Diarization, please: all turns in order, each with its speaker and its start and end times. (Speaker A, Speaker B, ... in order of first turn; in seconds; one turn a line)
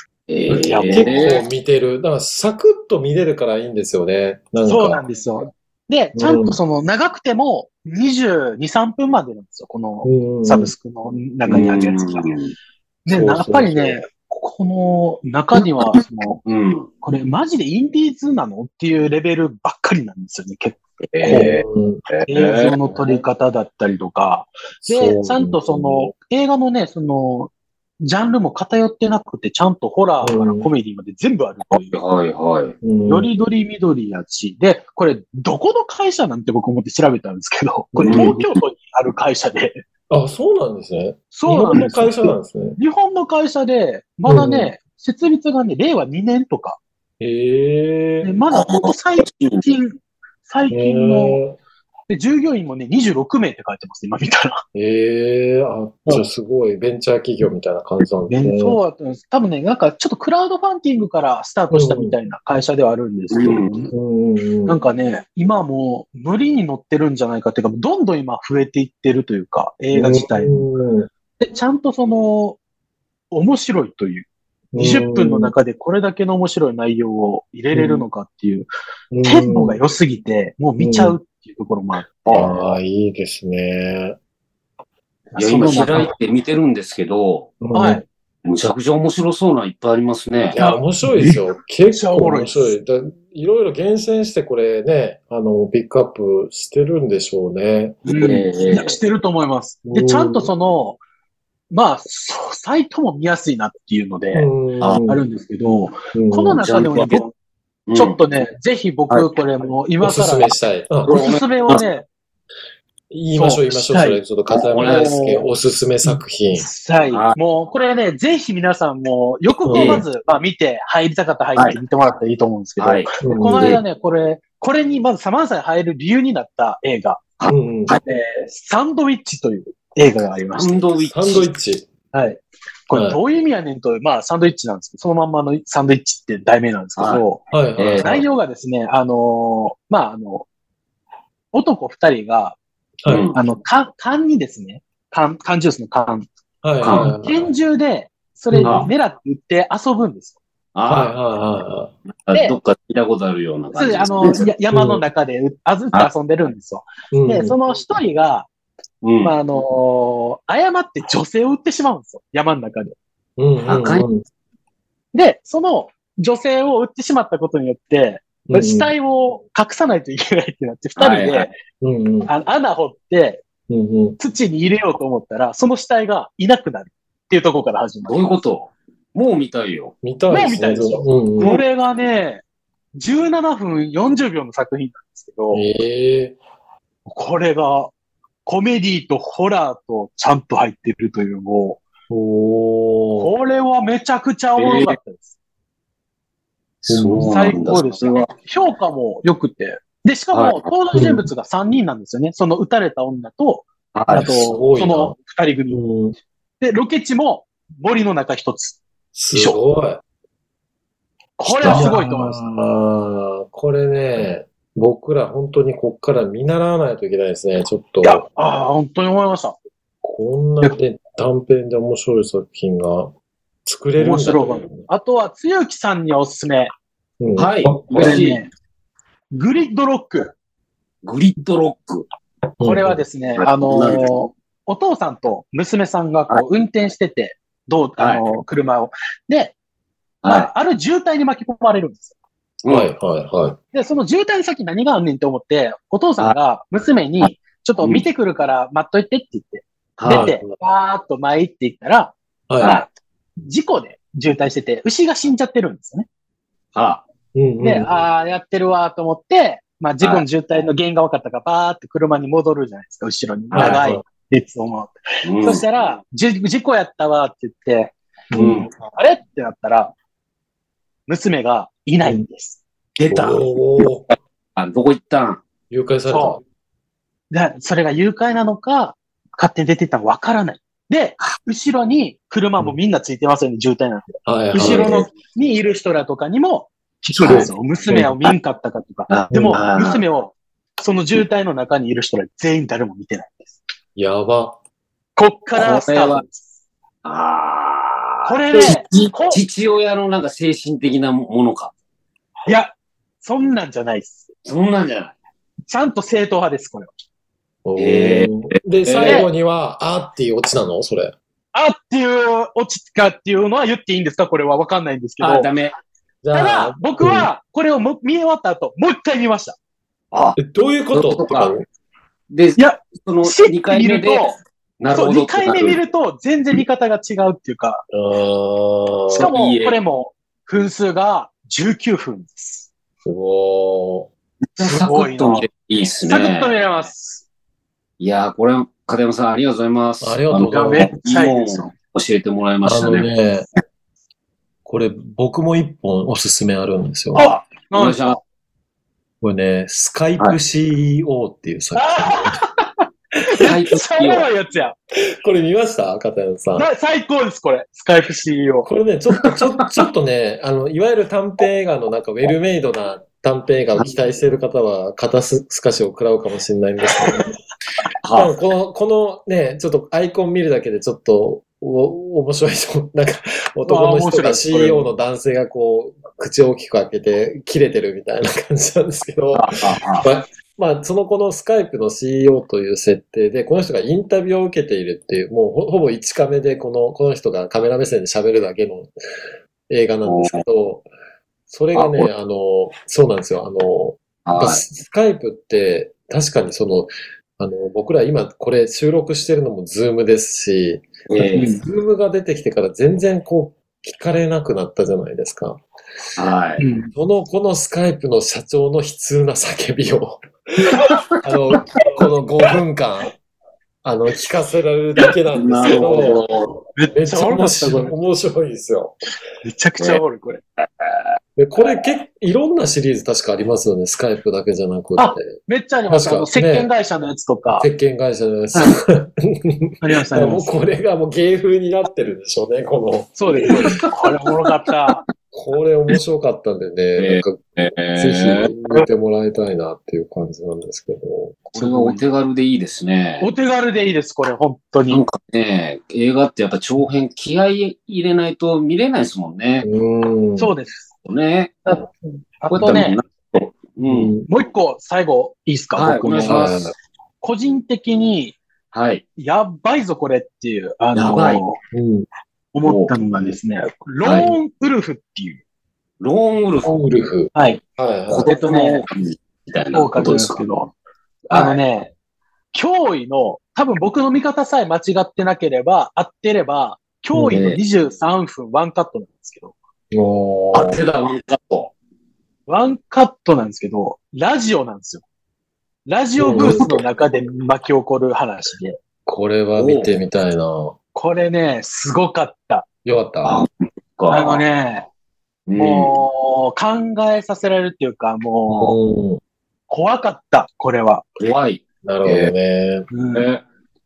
Speaker A: 0.3-1.4
Speaker B: 0.5-5.0
Speaker C: 0.5-1.4
Speaker C: 4.6-12.3
Speaker B: 6.2-6.6
Speaker B: 10.0-10.7
Speaker A: 11.4-12.5
Speaker B: 13.1-14.0
Speaker C: 13.1-16.4
Speaker A: 16.4-16.9
Speaker C: 17.0-21.6
Speaker A: 21.1-23.2
Speaker B: 21.3-22.0
Speaker C: 22.2-32.0
Speaker B: 24.8-26.1
Speaker B: 30.2-30.7
Speaker A: 31.7-32.7
Speaker B: 32.8-33.3
Speaker C: 33.1-39.8
Speaker B: 37.9-38.5
Speaker A: 38.0-38.3
Speaker B: 40.1-42.8
Speaker C: 41.3-46.8
Speaker B: 44.2-44.7
Speaker B: 47.2-48.3
Speaker C: 48.2-51.4
Speaker A: 48.5-49.6
Speaker B: 50.7-51.6
Speaker C: 52.1-54.6
Speaker B: 54.7-58.8
Speaker C: 58.3-63.9
Speaker B: 61.7-62.1
Speaker A: 63.3-63.7
Speaker B: 63.9-64.8
Speaker C: 64.7-70.6
Speaker B: 69.9-71.1
Speaker C: 71.4-72.6
Speaker C: 73.3-78.7
Speaker B: 74.7-75.5
Speaker B: 77.7-78.0
Speaker B: 79.1-79.8
Speaker C: 79.2-82.5
Speaker B: 80.8-81.2
Speaker A: 82.2-82.7
Speaker B: 82.3-84.2
Speaker C: 85.3-86.1
Speaker A: 85.4-87.5
Speaker B: 87.6-88.0
Speaker C: 87.7-88.0
Speaker A: 88.4-90.6
Speaker B: 90.5-98.0
Speaker C: 90.5-92.7
Speaker C: 98.0-101.0
Speaker A: 98.2-99.0
Speaker B: 99.8-100.5
Speaker C: 101.7-104.5
Speaker B: 104.3-105.2
Speaker C: 105.1-107.3
Speaker B: 106.1-106.6
Speaker A: 106.6-107.2
Speaker A: 107.9-108.2
Speaker C: 107.9-110.5
Speaker B: 110.0-111.1
Speaker A: 111.0-111.8
Speaker C: 111.0-112.0
Speaker B: 113.1-116.7
Speaker C: 113.3-115.4
Speaker A: 114.5-115.1
Speaker C: 116.0-127.2
Speaker A: 117.0-117.3
Speaker B: 119.6-120.0
Speaker A: 119.7-120.0
Speaker A: 122.8-123.8
Speaker B: 123.2-123.8
Speaker A: 127.4-128.1
Speaker B: 127.5-128.0
Speaker C: 128.0-130.9
Speaker A: 130.5-131.5
Speaker B: 131.1-131.9
Speaker C: 132.1-137.4
Speaker B: 132.9-133.2
Speaker A: 137.0-137.2
Speaker B: 137.5-138.2
Speaker A: 137.8-138.2
Speaker C: 138.0-140.4
Speaker C: 141.5-142.6
Speaker B: 143.0-143.3
Speaker A: 143.1-143.4
Speaker C: 143.3-146.3
Speaker B: 146.6-147.4
Speaker A: 146.8-147.1
Speaker C: 146.9-150.4
Speaker B: 148.5-148.9
Speaker A: 148.6-148.9
Speaker A: 150.7-151.1
Speaker B: 150.9-151.9
Speaker A: 152.2-154.5
Speaker C: 152.3-152.6
Speaker C: 153.7-158.5
Speaker B: 154.7-155.0
Speaker B: 157.1-157.6
Speaker A: 159.0-159.3
Speaker C: 159.2-162.9
Speaker B: 163.4-164.2
Speaker A: 163.7-164.0
Speaker C: 165.1-171.6
Speaker B: 168.5-168.9
Speaker A: 170.9-171.5
Speaker B: 171.8-172.3
Speaker C: 172.3-173.4
Speaker B: 173.7-174.2
Speaker C: 174.2-178.3
Speaker A: 178.1-179.9
Speaker B: 180.0-181.6
Speaker C: 180.3-182.4
Speaker C: 182.9-185.6
Speaker B: 185.5-186.4
Speaker C: 187.1-187.9
Speaker C: 188.4-191.8
Speaker B: 192.1-193.3
Speaker C: 193.2-195.3
Speaker A: 194.6-194.9
Speaker A: 196.8-198.3
Speaker B: 196.9-197.5
Speaker C: 197.2-205.8
Speaker A: 200.3-200.7
Speaker B: 200.9-201.2
Speaker A: 203.9-204.3
Speaker B: 204.1-205.1
Speaker B: 205.7-206.1
Speaker C: 206.6-208.8
Speaker B: 209.1-210.0
Speaker C: 209.3-209.6
Speaker C: 211.4-212.6
Speaker A: 211.4-211.9
Speaker B: 211.6-218.2
Speaker C: 218.0-219.6
Speaker B: 220.0-223.1
Speaker B: 223.6-224.9
Speaker C: 223.9-226.7
Speaker B: 227.2-228.2
Speaker A: 227.3-228.4
Speaker C: 227.9-228.5
Speaker C: 229.3-230.3
Speaker A: 231.0-232.1
Speaker B: 232.6-233.0
Speaker C: 232.6-239.5
Speaker A: 233.4-234.1
Speaker A: 238.0-238.2
Speaker A: 240.2-240.5
Speaker C: 240.2-242.1
Speaker A: 242.6-242.9
Speaker B: 242.7-243.6
Speaker C: 243.7-252.9
Speaker A: 247.8-248.1
Speaker A: 250.0-250.3
Speaker B: 250.1-250.5
Speaker B: 252.5-252.8
Speaker C: 253.4-256.1
Speaker A: 256.7-257.0
Speaker B: 257.3-257.9
Speaker C: 257.6-267.9
Speaker A: 263.5-263.8
Speaker B: 263.6-264.0
Speaker A: 265.2-265.6
Speaker B: 268.3-268.7
Speaker A: 268.4-268.7
Speaker C: 268.6-269.9
Speaker C: 271.1-272.6
Speaker A: 273.0-273.8
Speaker B: 273.1-274.1
Speaker A: 274.6-275.4
Speaker B: 275.7-276.4
Speaker C: 276.1-276.4
Speaker C: 277.3-293.6
Speaker B: 284.2-285.0
Speaker A: 284.6-285.1
Speaker A: 287.1-287.5
Speaker B: 287.2-288.1
Speaker A: 289.1-290.0
Speaker B: 289.3-289.6
Speaker B: 293.9-294.6
Speaker C: 295.1-296.5
Speaker A: 295.5-296.2
Speaker A: 297.0-301.7
Speaker C: 298.2-299.4
Speaker C: 302.4-304.3
Speaker A: 304.4-305.1
Speaker C: 305.6-306.9
Speaker B: 307.6-311.1
Speaker A: 307.8-309.3
Speaker C: 309.0-309.3
Speaker C: 311.5-315.5
Speaker A: 315.2-315.7
Speaker B: 316.2-317.3
Speaker C: 316.3-319.6
Speaker A: 320.1-320.4
Speaker B: 320.4-321.6
Speaker A: 320.9-321.5
Speaker A: 322.3-325.8
Speaker C: 322.6-324.4
Speaker C: 324.9-327.8
Speaker B: 327.9-329.3
Speaker C: 329.1-332.7
Speaker A: 329.1-329.8
Speaker B: 333.0-334.1
Speaker A: 334.5-336.5
Speaker C: 334.6-335.5
Speaker C: 336.0-337.2
Speaker A: 338.0-343.1
Speaker B: 340.0-340.9
Speaker C: 340.5-341.7
Speaker B: 342.6-343.5
Speaker B: 344.6-347.3
Speaker C: 347.1-348.2
Speaker A: 347.1-348.2
Speaker B: 349.2-352.4
Speaker C: 351.8-352.5
Speaker C: 353.3-354.8
Speaker A: 353.4-354.3
Speaker B: 355.2-356.7
Speaker C: 356.5-358.7
Speaker B: 358.6-367.3
Speaker A: 368.0-368.3
Speaker B: 368.1-379.5
Speaker C: 373.6-374.9
Speaker A: 379.3-380.1
Speaker B: 380.0-388.9
Speaker B: 389.7-390.9
Speaker A: 390.0-390.4
Speaker B: 391.5-405.6
Speaker A: 391.7-392.1
Speaker A: 394.2-394.6
Speaker A: 401.1-401.5
Speaker C: 401.3-401.6
Speaker A: 406.2-406.6
Speaker C: 406.6-406.9
Speaker B: 406.9-410.2
Speaker B: 411.2-413.1
Speaker B: 413.8-416.2
Speaker A: 415.3-416.5
Speaker C: 416.8-417.9
Speaker B: 416.9-418.9
Speaker C: 419.4-420.4
Speaker B: 421.4-426.7
Speaker C: 425.0-427.7
Speaker B: 427.6-433.7
Speaker C: 429.8-430.6
Speaker C: 433.1-435.0
Speaker B: 435.3-441.4
Speaker A: 437.0-438.6
Speaker A: 441.5-443.3
Speaker C: 441.5-442.0
Speaker C: 443.2-445.0
Speaker A: 444.9-449.7
Speaker B: 449.6-450.5
Speaker C: 450.4-450.9
Speaker A: 451.0-451.6
Speaker C: 451.6-453.0
Speaker A: 452.5-454.1
Speaker B: 453.8-454.3
Speaker C: 454.3-458.4
Speaker A: 455.7-456.7
Speaker B: 456.2-456.7
Speaker A: 458.7-459.0
Speaker C: 459.2-461.6
Speaker A: 460.9-461.4
Speaker B: 461.7-462.1
Speaker C: 462.5-465.4
Speaker A: 462.6-462.9
Speaker B: 463.1-463.4
Speaker A: 464.0-464.3
Speaker A: 466.0-466.7
Speaker B: 466.6-468.3
Speaker C: 467.3-467.6
Speaker A: 468.1-470.5
Speaker C: 468.2-468.8
Speaker C: 469.7-470.7
Speaker A: 471.3-471.6
Speaker C: 471.3-471.9
Speaker C: 472.5-479.5
Speaker B: 477.1-477.4
Speaker A: 477.3-477.6
Speaker B: 479.9-480.8
Speaker A: 480.5-481.7
Speaker C: 482.5-485.0
Speaker C: 485.9-488.8
Speaker B: 486.2-486.7
Speaker A: 486.2-486.9
Speaker B: 489.1-490.7
Speaker A: 489.6-489.9
Speaker C: 490.9-492.6
Speaker B: 492.8-493.4
Speaker A: 493.2-494.4
Speaker C: 494.1-494.9
Speaker A: 495.5-495.9
Speaker C: 495.6-498.7
Speaker B: 498.5-499.2
Speaker C: 499.7-501.1
Speaker A: 501.2-502.3
Speaker B: 501.8-502.9
Speaker C: 502.9-503.3
Speaker A: 503.1-503.4